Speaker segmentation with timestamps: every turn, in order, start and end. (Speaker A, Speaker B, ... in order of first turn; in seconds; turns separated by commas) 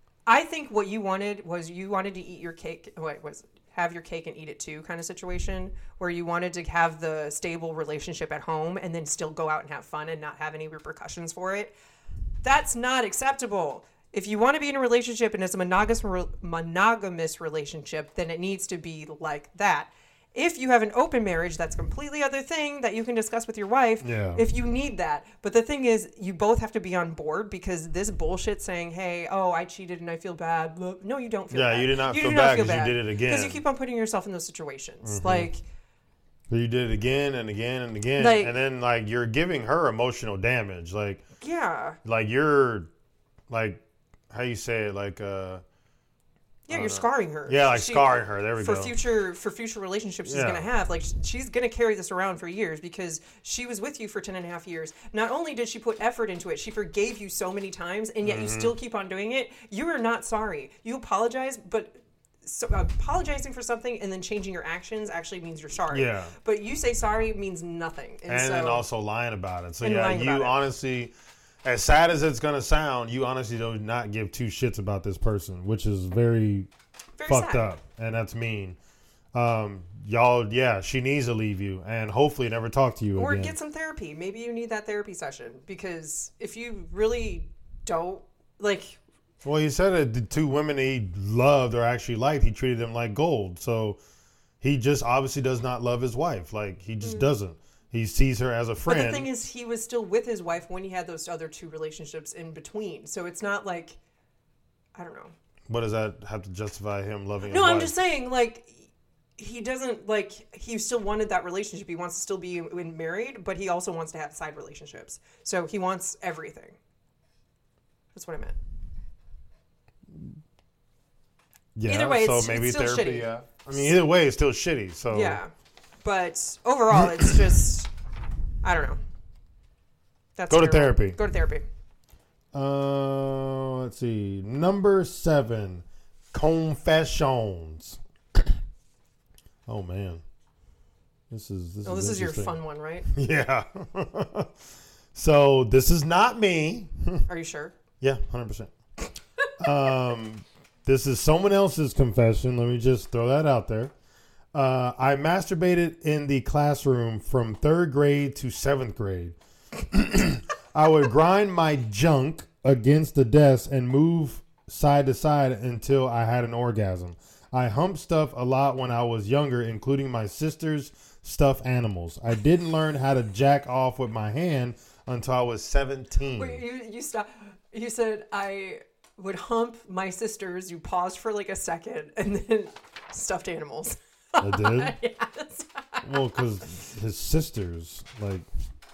Speaker A: 0.2-11.7, Speaker A: 12.4-35.6, Speaker B: 24.0-24.4, Speaker B: 31.5-33.6, Speaker B: 35.0-35.5, Speaker B: 36.5-41.2, Speaker A: 38.2-38.5, Speaker A: 41.4-42.0, Speaker B: 42.0-42.9, Speaker B: 43.5-43.8, Speaker B: 44.3-45.6, Speaker A: 46.7-68.8, Speaker B: 46.7-48.9, Speaker B: 50.2-50.7, Speaker B: 58.2-58.7, Speaker B: 65.9-66.3, Speaker B: 68.3-71.1, Speaker A: 69.8-70.6, Speaker B: 71.6-76.7, Speaker A: 77.2-77.7, Speaker B: 77.3-78.8, Speaker B: 79.3-83.5, Speaker A: 83.1-89.0, Speaker B: 89.4-94.0, Speaker B: 94.6-99.3, Speaker A: 97.0-97.3, Speaker A: 98.8-104.0, Speaker A: 105.0-105.3, Speaker B: 105.7-107.9, Speaker A: 107.4-116.8, Speaker A: 118.1-118.6, Speaker B: 121.7-125.4, Speaker A: 121.8-124.0, Speaker A: 125.1-125.5, Speaker A: 126.0-127.9, Speaker B: 126.9-127.4, Speaker A: 128.6-129.0, Speaker A: 130.4-131.7, Speaker B: 130.5-131.2, Speaker B: 132.5-138.4, Speaker B: 139.7-140.2, Speaker B: 141.3-142.6, Speaker A: 141.8-143.1, Speaker B: 143.1-144.5, Speaker B: 145.1-147.2, Speaker A: 147.3-147.7, Speaker B: 148.0-148.7, Speaker B: 149.6-153.9, Speaker B: 154.5-176.6, Speaker A: 176.3-186.1, Speaker B: 184.4-184.9, Speaker B: 186.0-188.4